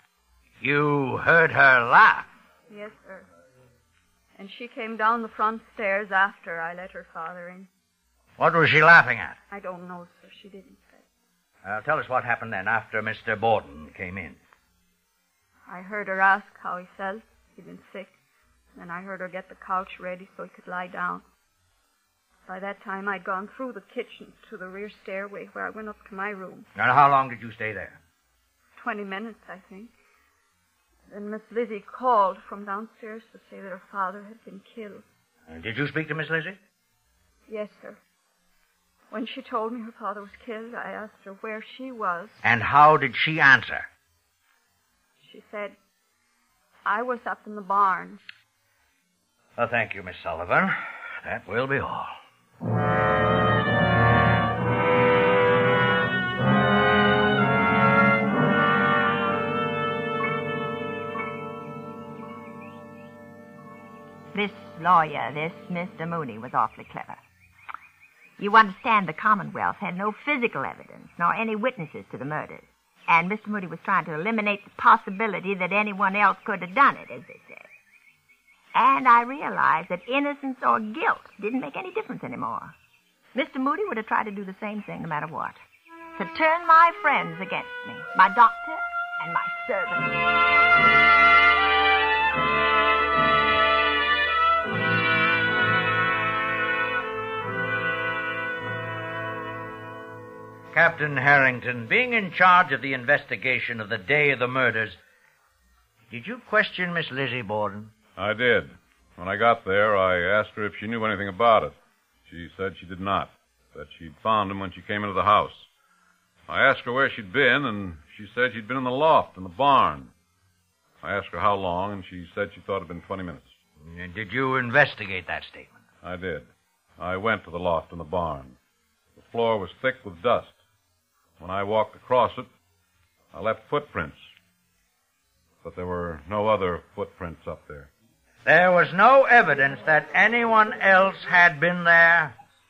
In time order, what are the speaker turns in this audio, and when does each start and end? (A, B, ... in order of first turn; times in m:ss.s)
0:00.6-0:02.3 A
0:02.7-0:03.2 B
0:04.4-0:07.7 B
0:08.4-0:09.4 A
0:09.5-0:11.0 B
0:11.6-0:14.4 A
0:15.7-0:18.1 B
0:18.8-0:21.2 B
0:22.5-0:26.7 B
0:26.8-0:28.0 A
0:28.8-0:29.9 B
0:31.1-0:35.0 B
0:35.5-0:36.6 A
0:37.5-0:38.0 B
0:39.1-0:42.4 B
0:42.4-0:43.9 A
0:45.2-0:45.8 B
0:46.8-0:48.2 B
0:49.6-0:52.2 A
1:04.3-1:07.2 C
1:08.4-1:17.7 C
1:18.7-1:22.7 C
1:23.3-1:25.6 C
1:26.1-1:30.1 C
1:40.7-1:45.0 A
1:46.1-1:47.9 A
1:48.2-1:51.8 D
1:52.3-1:55.7 D
1:56.5-2:00.1 D
2:01.0-2:03.5 D
2:03.8-2:05.8 A
2:06.0-2:06.5 D
2:07.0-2:08.6 D
2:09.2-2:10.5 D
2:11.4-2:12.5 D
2:13.3-2:14.2 D
2:15.6-2:17.9 D
2:18.4-2:22.4 A